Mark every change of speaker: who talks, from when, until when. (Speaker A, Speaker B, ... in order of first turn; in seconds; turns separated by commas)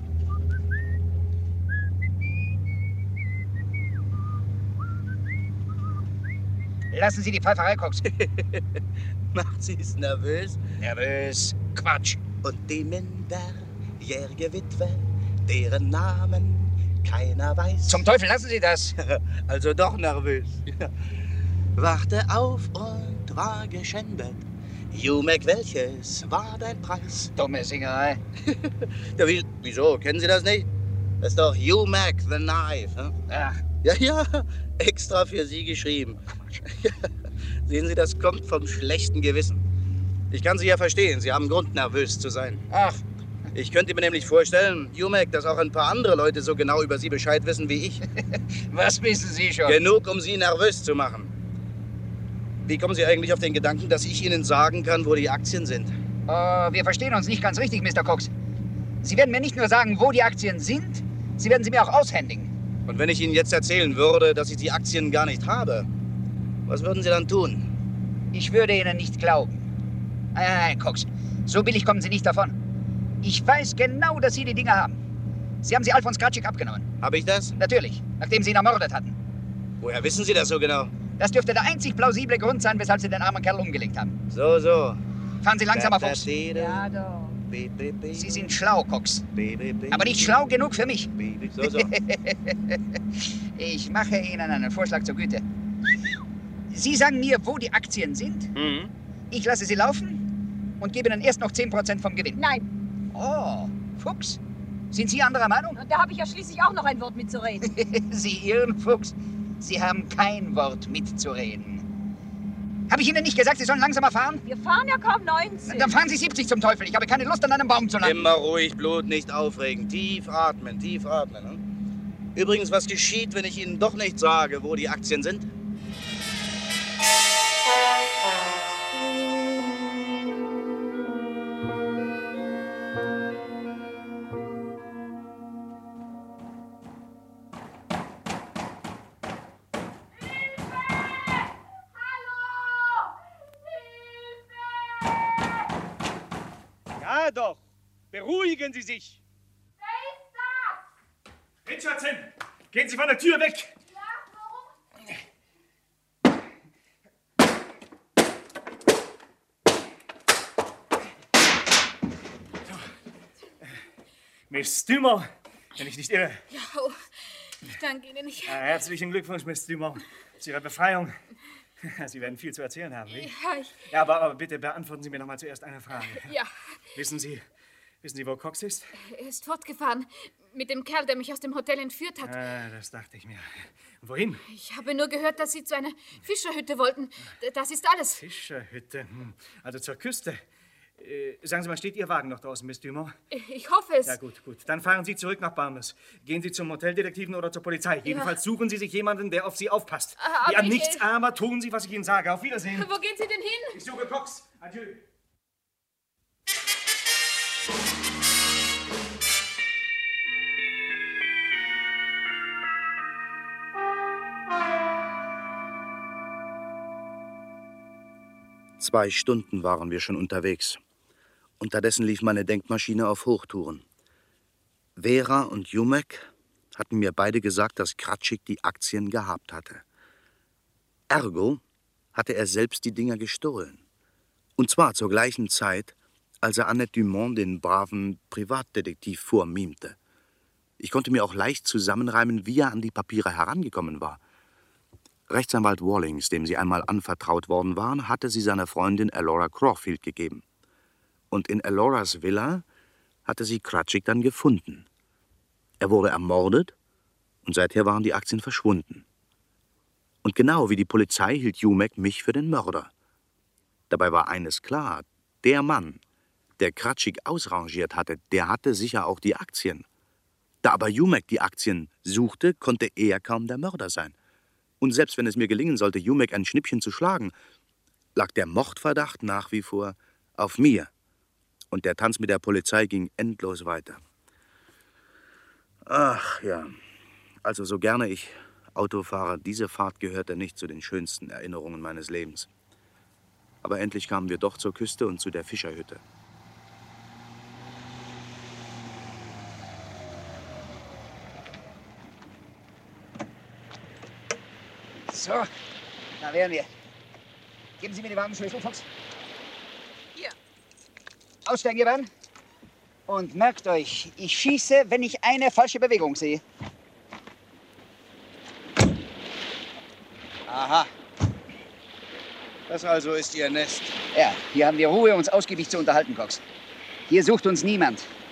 Speaker A: 6.9-8.0, Speaker B: 8.1-8.8, Speaker B: 9.3-10.8, Speaker A: 10.8-12.2, Speaker B: 12.4-18.1, Speaker A: 17.9-18.9, Speaker B: 19.0-20.9, Speaker B: 21.8-27.3, Speaker A: 27.4-28.2, Speaker B: 28.4-30.7, Speaker B: 31.2-33.2, Speaker A: 33.3-33.6, Speaker B: 33.8-37.1, Speaker B: 37.6-39.6, Speaker B: 40.3-42.6, Speaker A: 42.7-43.0, Speaker B: 43.5-48.0, Speaker A: 48.7-49.8, Speaker B: 49.6-51.3, Speaker B: 52.6-55.9, Speaker A: 56.3-58.3, Speaker A: 59.0-62.5, Speaker B: 62.9-65.9, Speaker B: 66.7-67.7, Speaker A: 68.3-69.7, Speaker A: 70.3-72.6, Speaker A: 73.2-75.0, Speaker A: 75.6-76.9, Speaker B: 77.0-77.6, Speaker A: 77.6-79.2, Speaker B: 79.8-80.9, Speaker A: 81.2-84.2, Speaker B: 84.3-85.0, Speaker A: 85.4-86.3, Speaker B: 85.7-86.9, Speaker C: 86.5-87.3, Speaker B: 87.5-88.5, Speaker A: 88.1-89.2, Speaker B: 89.3-90.4, Speaker A: 89.9-92.8, Speaker B: 91.2-91.9, Speaker A: 93.5-95.4, Speaker A: 96.7-98.5, Speaker B: 98.5-98.9, Speaker A: 99.3-100.2, Speaker A: 100.8-102.4, Speaker C: 102.3-102.7, Speaker A: 103.1-104.4, Speaker A: 104.9-105.8, Speaker C: 105.7-107.7, Speaker A: 107.7-111.8, Speaker A: 112.9-114.4, Speaker C: 114.4-116.0, Speaker A: 115.6-118.3, Speaker B: 118.0-121.6, Speaker B: 122.3-125.5, Speaker D: 147.0-149.2, Speaker D: 151.7-153.8, Speaker D: 164.5-166.4, Speaker E: 166.5-167.0, Speaker E: 167.7-168.5, Speaker D: 168.4-171.2, Speaker D: 171.8-176.3, Speaker E: 173.2-173.7, Speaker D: 176.9-177.4, Speaker D: 178.0-178.9, Speaker E: 179.1-182.3, Speaker D: 182.2-183.4, Speaker D: 184.0-184.4, Speaker E: 184.5-188.2, Speaker D: 188.1-190.4, Speaker D: 191.0-193.1, Speaker E: 193.3-194.1, Speaker D: 194.0-202.9, Speaker E: 200.2-201.0, Speaker E: 202.8-203.7, Speaker D: 203.7-205.0, Speaker B: 218.8-220.8, Speaker B: 221.6-223.8, Speaker B: 225.0-229.8, Speaker B: 231.1-231.6, Speaker B: 232.1-233.8, Speaker B: 234.6-240.0, Speaker B: 240.8-244.2, Speaker B: 245.3-250.4, Speaker B: 251.3-252.6, Speaker B: 253.2-254.8, Speaker B: 255.8-256.7, Speaker B: 257.4-259.0, Speaker B: 260.2-262.9, Speaker B: 263.9-266.0, Speaker B: 266.6-269.9, Speaker B: 270.6-274.1, Speaker B: 274.8-277.3, Speaker B: 278.1-280.9, Speaker B: 281.7-284.0, Speaker B: 285.9-286.7, Speaker B: 287.4-292.5, Speaker B: 293.6-296.0, Speaker A: 305.1-305.5, Speaker A: 306.2-306.7, Speaker A: 307.8-308.9, Speaker A: 311.4-312.1, Speaker A: 313.1-316.4, Speaker B: 320.5-320.9, Speaker B: 322.7-324.0, Speaker A: 324.1-326.4, Speaker A: 327.1-328.1